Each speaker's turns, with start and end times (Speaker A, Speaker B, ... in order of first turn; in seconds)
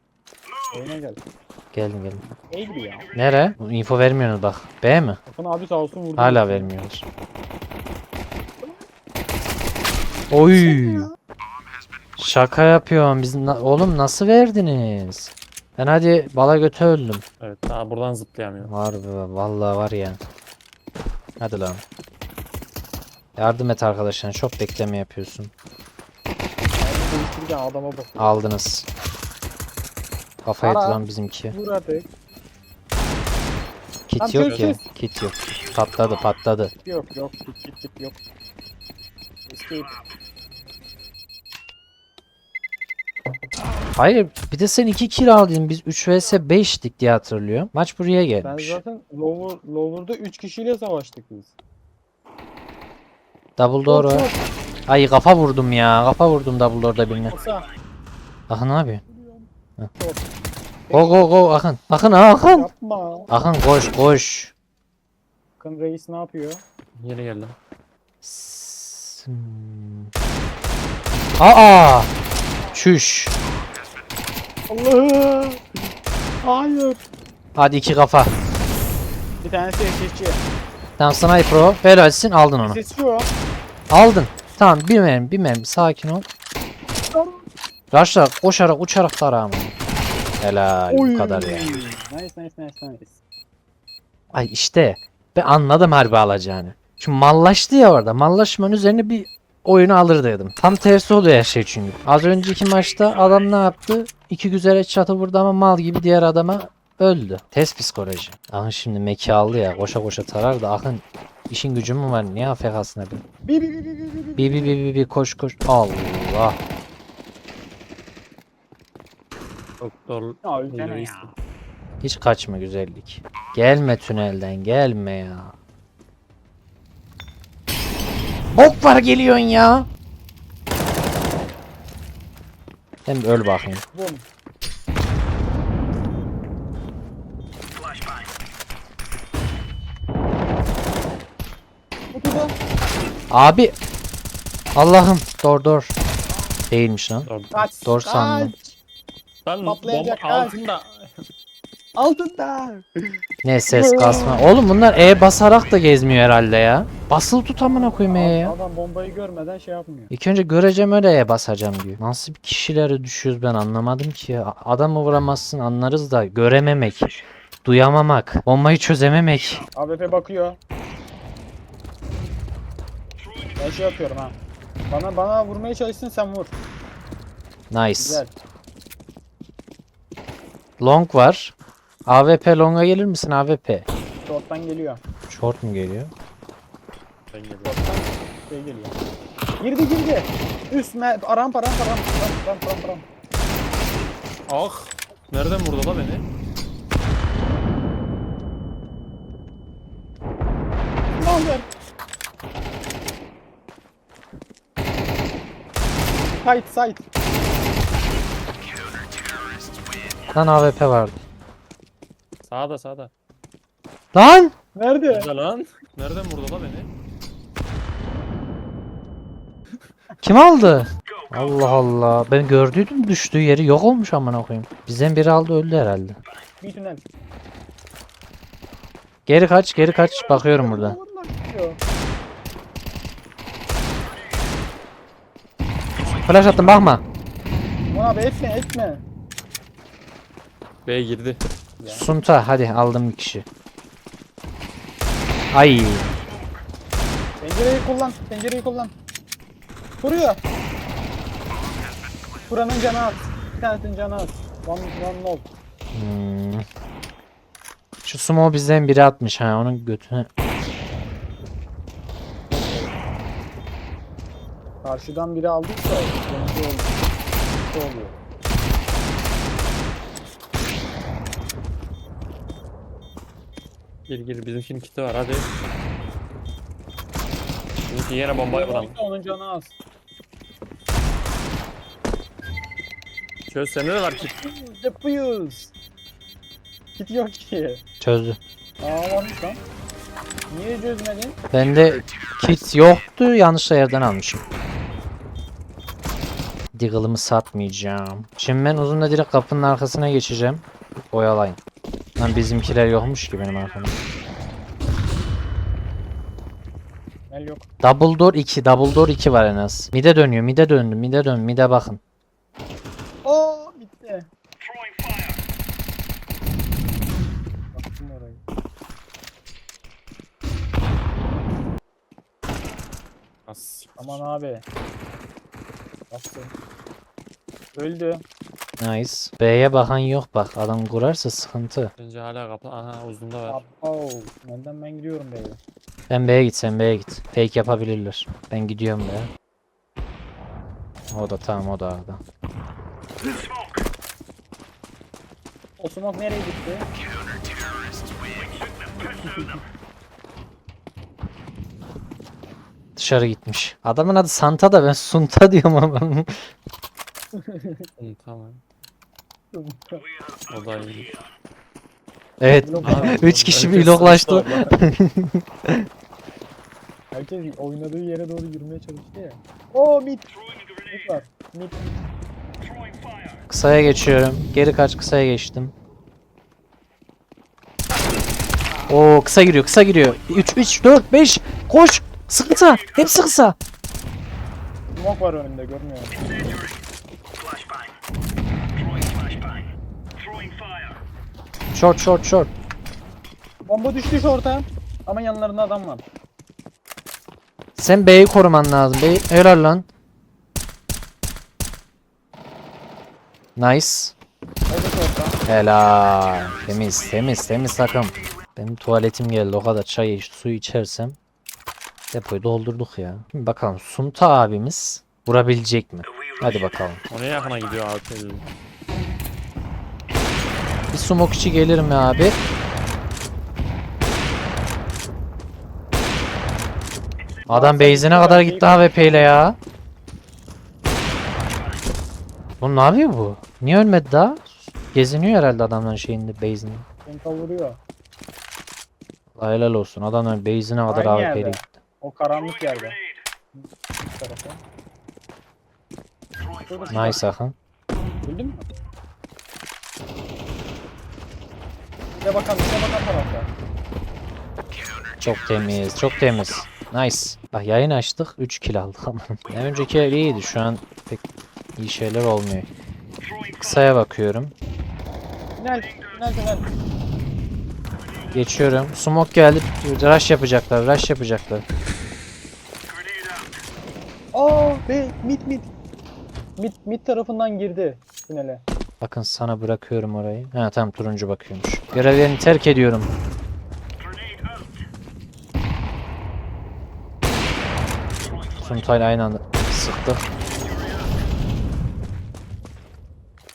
Speaker A: 0.7-1.2, 2.5-3.1, 5.3-6.7, 10.5-11.1, 26.8-28.4, 30.6-31.0, 31.5-32.1, 34.2-34.8, 36.8-38.2, 39.5-39.9, 48.4-51.5, 53.8-54.4, 57.3-57.7, 59.1-60.3, 60.9-61.2, 62.5-63.3, 65.6-66.6, 74.7-75.6, 76.4-77.0, 79.4-80.4, 82.6-83.3, 87.1-87.4, 90.9-93.2, 113.5-114.8, 120.4-121.3, 133.9-134.2, 142.1-142.5, 147.5-148.8, 149.6-150.6, 151.9-153.2, 153.7-154.5, 157.7-160.1, 169.7-170.6, 173.6-174.4, 174.9-176.5, 178.0-178.3, 184.2-185.0, 187.6-188.9, 189.6-193.1, 201.2-201.7, 206.4-207.0, 214.7-215.3, 226.6-227.0, 230.2-231.8, 237.9-239.0, 241.8-242.1, 247.4-248.9, 250.0-250.4, 252.5-255.5, 262.6-262.9, 264.8-268.1, 278.3-279.7, 284.1-285.7, 286.9-287.8, 288.8-289.6, 290.5-291.4, 307.3-307.6, 313.2-314.3, 317.7-318.4, 324.0-324.6, 326.1-326.5, 327.7-328.2, 333.5-335.6, 345.8-346.9, 357.3-357.8, 359.5-360.0, 362.6-363.3, 367.1-370.3, 370.9-371.9, 384.9-386.2, 393.7-396.0, 404.7-405.4, 427.5-429.3, 437.1-437.8, 440.9-443.0, 443.5-444.6, 446.7-447.2, 448.2-448.7, 452.1-453.5, 465.6-466.7, 474.3-475.7, 476.6-478.6
Speaker B: 1.7-2.2, 3.1-5.2, 6.2-7.0, 10.3-11.1, 12.2-17.2, 18.6-20.2, 21.4-21.8, 23.4-25.5, 28.2-28.9, 30.4-31.6, 34.1-36.7, 43.9-48.8, 53.6-54.3, 54.9-57.4, 58.5-59.0, 60.9-62.7, 63.3-64.5, 68.2-70.1, 71.4-72.1, 72.7-73.3, 77.5-78.3, 81.0-82.8, 83.9-86.2, 87.9-89.7, 90.4-91.8, 94.3-113.2, 114.4-116.6, 122.0-125.5, 128.6-129.9, 133.1-133.8, 143.3-143.8, 144.7-145.9, 146.7-147.3, 147.8-148.5, 153.4-158.5, 160.1-169.6, 177.7-178.2, 180.8-181.5, 182.1-183.8, 185.3-186.1, 210.3-211.2, 214.1-214.5, 220.2-226.2, 229.3-231.0, 236.2-237.0, 241.9-243.4, 245.5-246.2, 255.9-256.6, 258.0-260.3, 288.0-288.4, 291.5-294.4, 296.7-301.6, 302.2-304.0, 307.8-312.0, 328.8-331.9, 336.1-339.3, 341.1-342.2, 352.9-356.4, 362.4-365.8, 373.5-375.7, 378.9-383.6, 391.7-392.5, 397.8-399.9, 403.6-404.1, 405.5-411.2, 412.1-417.0, 420.9-422.4, 427.5-429.6, 432.6-436.9, 439.4-441.7, 446.9-447.6, 455.2-461.2, 461.8-462.7, 463.6-464.5, 468.3-471.6, 479.0-483.1, 488.6-490.2
Speaker C: 17.4-18.7, 34.4-34.7, 67.0-67.5, 119.8-121.3, 147.2-147.7, 149.4-151.1, 187.3-187.8, 194.5-196.2, 212.4-213.1, 215.1-216.9, 240.8-241.4, 274.1-275.5, 277.9-278.9, 283.5-284.4, 323.5-324.2, 332.0-333.6, 358.0-358.6, 360.5-361.1, 362.8-364.9, 417.1-418.5